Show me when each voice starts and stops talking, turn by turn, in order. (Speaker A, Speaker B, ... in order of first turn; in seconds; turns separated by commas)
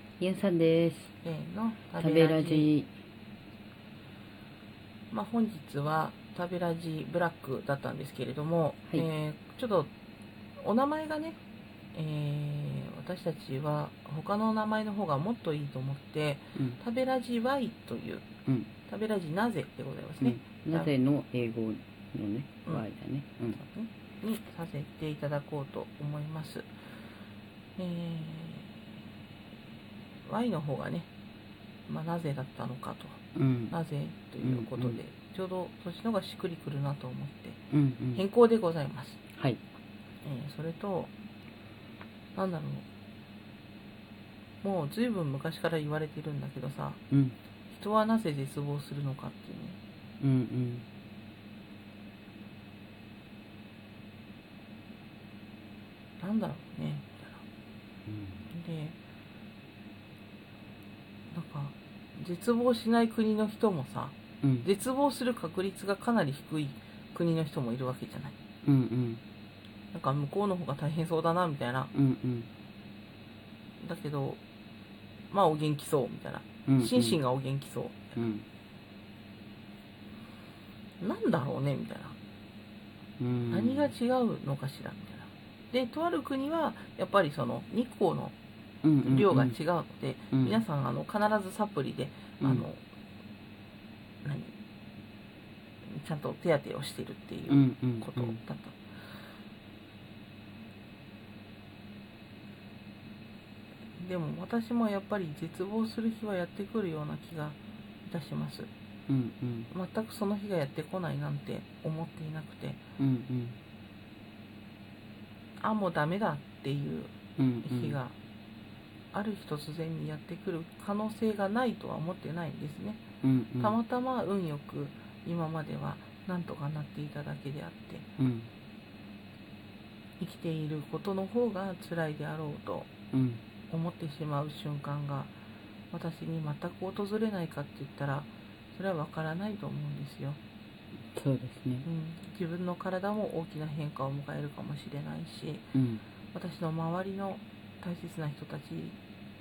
Speaker A: 0.2-1.1, Speaker B: 1.2-2.7, Speaker A: 2.0-2.9, Speaker B: 5.1-9.9, Speaker B: 10.6-11.4, Speaker B: 11.9-18.3, Speaker A: 18.5-18.7, Speaker B: 18.9-20.9, Speaker A: 20.2-23.6, Speaker B: 23.6-26.7, Speaker B: 27.8-28.8, Speaker B: 30.3-31.1, Speaker B: 31.9-33.2, Speaker A: 33.4-33.8, Speaker B: 33.7-37.6, Speaker A: 34.4-35.0, Speaker A: 37.7-38.2, Speaker B: 38.1-39.2, Speaker B: 40.2-41.1, Speaker B: 42.4-42.9, Speaker B: 44.6-47.0, Speaker A: 47.1-47.4, Speaker B: 47.7-49.8, Speaker A: 50.2-50.9, Speaker B: 56.2-57.4, Speaker A: 58.1-58.5, Speaker B: 58.5-59.0, Speaker B: 61.3-68.3, Speaker A: 64.4-64.7, Speaker A: 68.7-69.2, Speaker B: 69.9-71.9, Speaker A: 71.9-72.5, Speaker B: 73.8-74.4, Speaker B: 75.3-78.1, Speaker A: 76.7-77.2, Speaker A: 78.2-78.5, Speaker B: 81.0-82.2, Speaker A: 83.2-83.9, Speaker B: 83.5-88.3, Speaker A: 88.8-89.6, Speaker B: 89.0-92.8, Speaker A: 90.3-90.6, Speaker A: 92.4-92.7, Speaker B: 94.2-94.5, Speaker B: 95.9-98.8, Speaker A: 97.5-98.4, Speaker B: 104.0-108.7, Speaker A: 109.1-109.7, Speaker B: 109.7-112.8, Speaker A: 113.0-113.6, Speaker B: 115.6-117.1, Speaker A: 117.4-118.0, Speaker B: 117.7-118.2, Speaker B: 119.1-123.0, Speaker A: 123.2-123.8, Speaker B: 123.6-128.1, Speaker A: 128.2-128.5, Speaker B: 130.2-132.9, Speaker A: 133.1-133.4, Speaker B: 133.7-135.3, Speaker B: 135.9-140.4, Speaker A: 141.1-141.9, Speaker B: 141.8-145.7, Speaker A: 145.7-146.0, Speaker B: 146.3-149.0